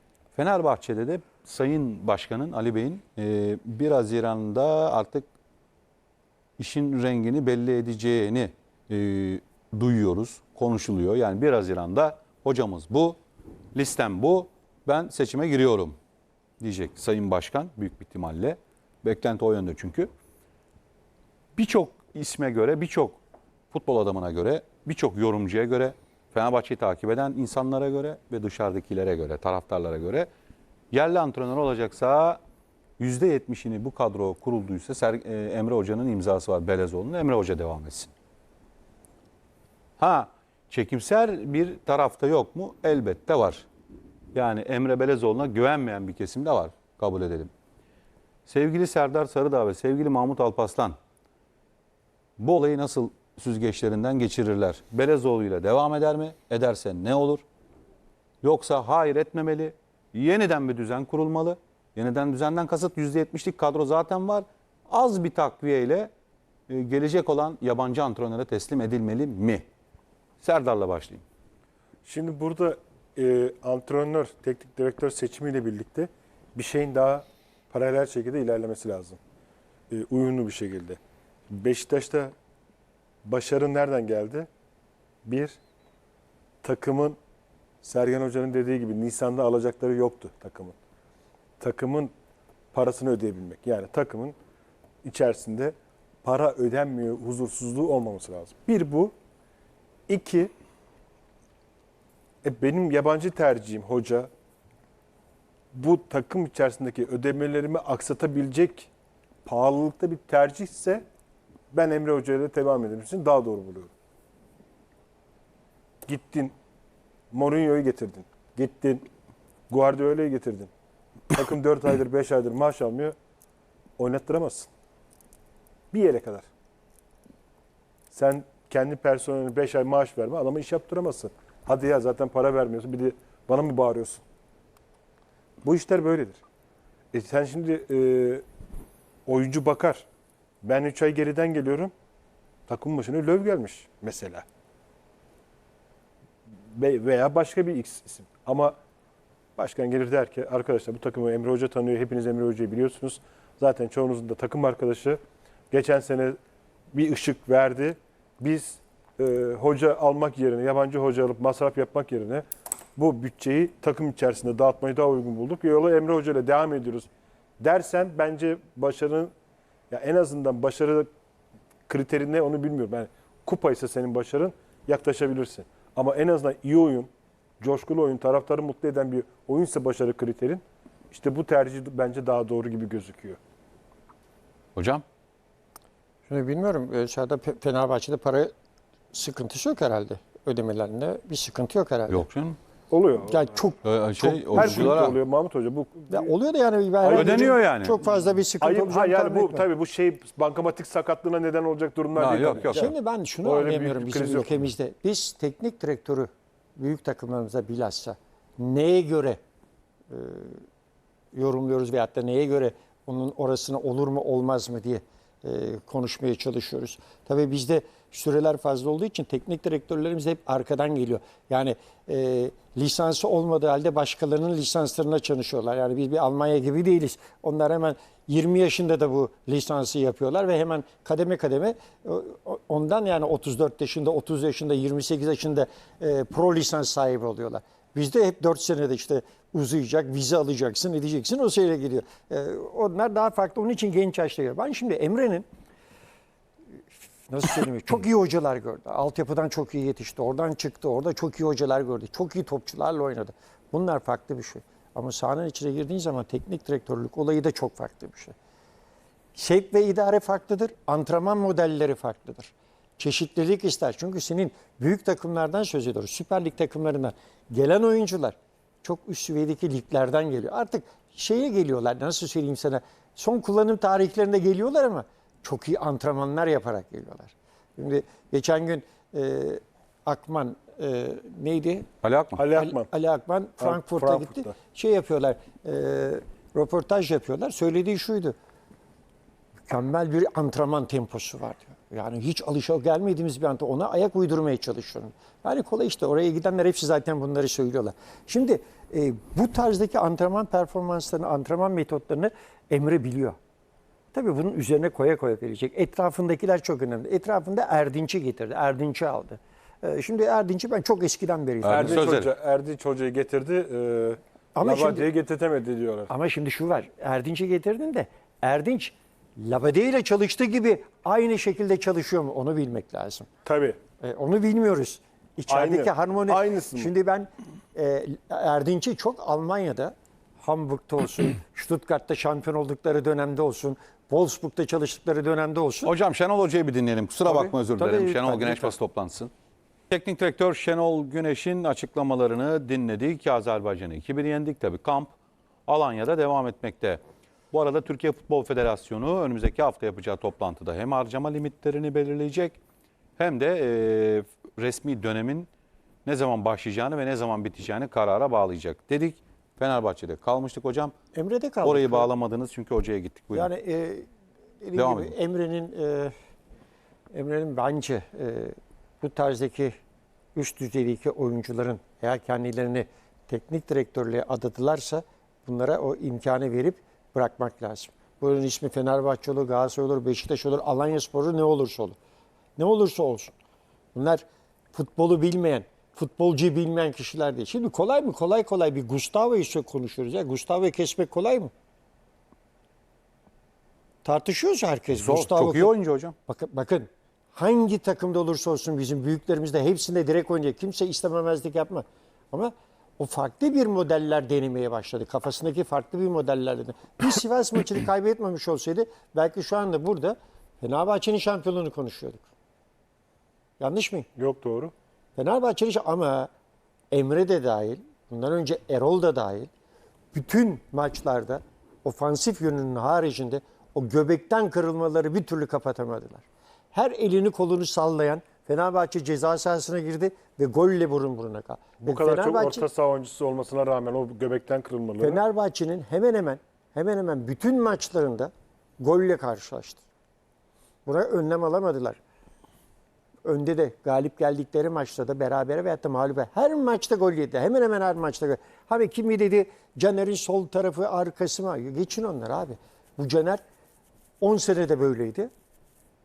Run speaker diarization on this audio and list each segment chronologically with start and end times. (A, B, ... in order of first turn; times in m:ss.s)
0:00.3-0:05.2 A
0:06.6-0:13.2 A
0:13.7-0:16.0 A
0:16.6-0:20.1 A
0:21.6-0:23.2 A
0:23.7-0:30.3 A
0:30.9-0:32.4 A
0:33.0-0:38.1 A
0:40.0-0:43.7 A
0:44.3-0:47.5 A
0:48.5-0:51.0 A
0:52.4-0:57.4 A
0:58.4-1:06.1 A
1:06.7-1:09.6 A
1:10.4-1:11.2 A
1:12.0-1:19.2 B
1:19.9-1:21.0 B
1:21.5-1:22.3 B
1:23.2-1:24.5 B
1:25.2-1:25.6 B
1:26.6-1:27.2 B
1:27.8-1:30.7 B
1:31.6-1:32.1 B
1:32.7-1:34.4 B
1:35.0-1:39.1 B
1:40.1-1:40.5 B
1:42.4-1:44.3 B
1:45.7-1:48.9 B
1:49.4-1:51.0 B
1:51.7-1:53.9 B
1:56.0-1:56.5 B
1:57.3-1:59.0 B
1:59.7-2:00.7 B
2:01.3-2:03.1 B
2:04.0-2:04.7 B
2:05.9-2:06.5 B
2:08.1-2:14.2 B
2:15.6-2:16.4 B
2:17.1-2:18.4 B
2:19.3-2:20.0 B
2:20.6-2:21.9 B
2:22.7-2:24.4 B
2:26.7-2:28.8 B
2:29.6-2:35.2 B
2:35.7-2:36.4 B
2:36.9-2:42.4 B
2:43.0-2:47.1 B
2:47.6-2:49.3 B
2:49.9-2:51.1 B
2:51.9-2:57.1 B
2:57.6-3:03.4 B
3:04.7-3:05.0 A
3:06.3-3:08.5 C
3:09.1-3:12.2 C
3:12.1-3:12.6 A
3:12.9-3:13.6 B
3:13.3-3:15.0 C
3:13.8-3:15.2 A
3:14.5-3:16.3 B
3:16.1-3:19.7 C
3:17.0-3:17.6 B
3:17.1-3:18.0 A
3:18.6-3:22.9 B
3:22.2-3:22.9 A
3:22.6-3:29.4 C
3:23.4-3:24.6 B
3:30.1-3:30.6 C
3:31.3-4:05.5 C
4:06.9-4:18.3 C
4:19.3-4:41.9 C
4:42.0-4:42.4 A
4:42.4-4:42.9 B
4:42.5-4:48.3 C
4:43.6-4:44.5 B
4:49.7-5:03.4 C
5:04.1-5:12.0 C
5:11.6-5:12.3 A
5:11.6-5:16.1 B
5:14.5-5:15.1 C
5:16.1-5:23.3 C
5:23.4-5:23.8 B
5:24.0-5:35.9 C
5:25.5-5:26.9 B
5:35.8-5:39.3 A
5:37.8-5:38.7 C
5:39.9-5:45.1 A
5:45.7-5:47.0 A
5:47.5-5:52.6 A
5:53.2-5:55.5 A
5:56.0-6:00.9 A
6:01.1-6:02.1 C
6:01.6-6:03.5 A
6:03.3-6:04.1 C
6:04.6-6:06.1 C
6:04.7-6:05.1 A
6:07.1-6:09.7 C
6:10.3-6:22.0 C
6:22.6-6:23.3 C
6:23.9-6:31.5 C
6:34.0-6:35.7 C
6:34.9-6:36.1 A
6:36.3-6:52.3 C
6:53.6-6:54.1 C
6:54.2-6:54.7 B
6:55.2-6:56.3 C
6:56.9-6:59.5 C
7:00.1-7:12.6 C
7:11.8-7:15.2 B
7:15.0-7:19.8 C
7:20.8-7:22.0 C
7:23.2-7:33.4 C
7:34.2-7:35.3 C